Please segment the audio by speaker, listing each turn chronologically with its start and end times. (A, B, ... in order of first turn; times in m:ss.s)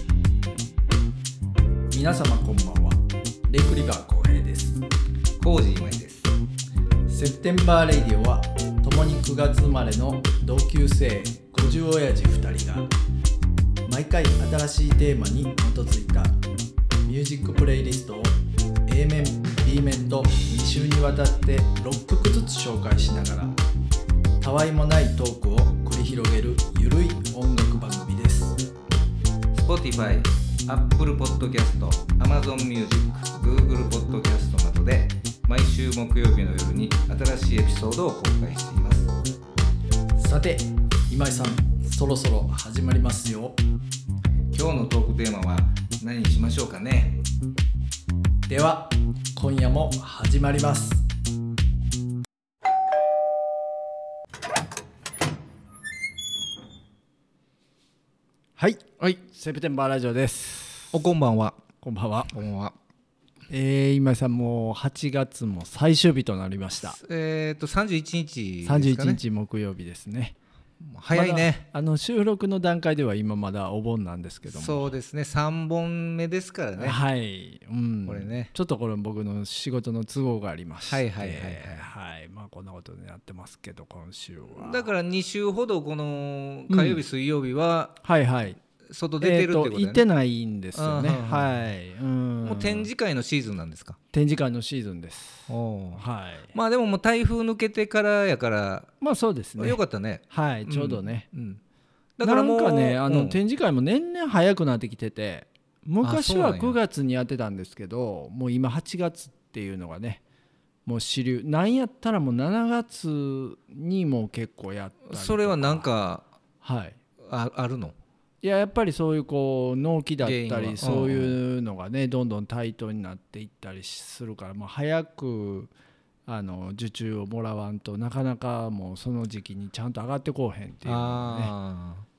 0:01.9-0:04.8 A
0:05.4-0:06.3 B
0:07.1-0:12.9 A
0:13.8-0:16.4 A
0:17.0-0:23.6 A
0:24.4-0:28.6 A
0:29.5-0:39.1 B
0:40.2-0:43.6 A
0:44.5-0:47.2 B
0:48.5-0:51.0 A
0:58.6-1:00.9 A
1:00.9-1:01.6 B
1:01.8-1:02.3 A
1:02.3-1:02.7 B
1:03.5-1:07.0 A
1:07.0-1:09.2 B
1:08.6-1:10.4 A
1:10.8-1:11.6 B
1:11.1-1:14.9 A
1:14.5-1:17.0 B
1:16.8-1:24.8 A
1:18.0-1:18.5 B
1:20.8-1:21.8 B
1:24.5-1:28.0 B
1:26.7-1:27.0 A
1:28.0-1:28.6 A
1:28.8-1:30.0 B
1:29.2-1:32.9 A
1:30.7-1:31.6 B
1:32.4-1:34.0 B
1:34.1-1:36.5 A
1:35.5-1:38.9 B
1:39.0-1:41.2 A
1:39.6-1:41.6 B
1:42.2-1:43.4 B
1:42.2-1:50.2 A
1:46.0-1:46.8 B
1:50.8-1:55.9 A
1:55.1-1:56.3 B
1:56.6-1:57.0 A
1:57.2-1:58.0 B
1:58.4-2:05.7 A
2:00.2-2:01.4 B
2:06.3-2:11.5 A
2:10.8-2:12.0 B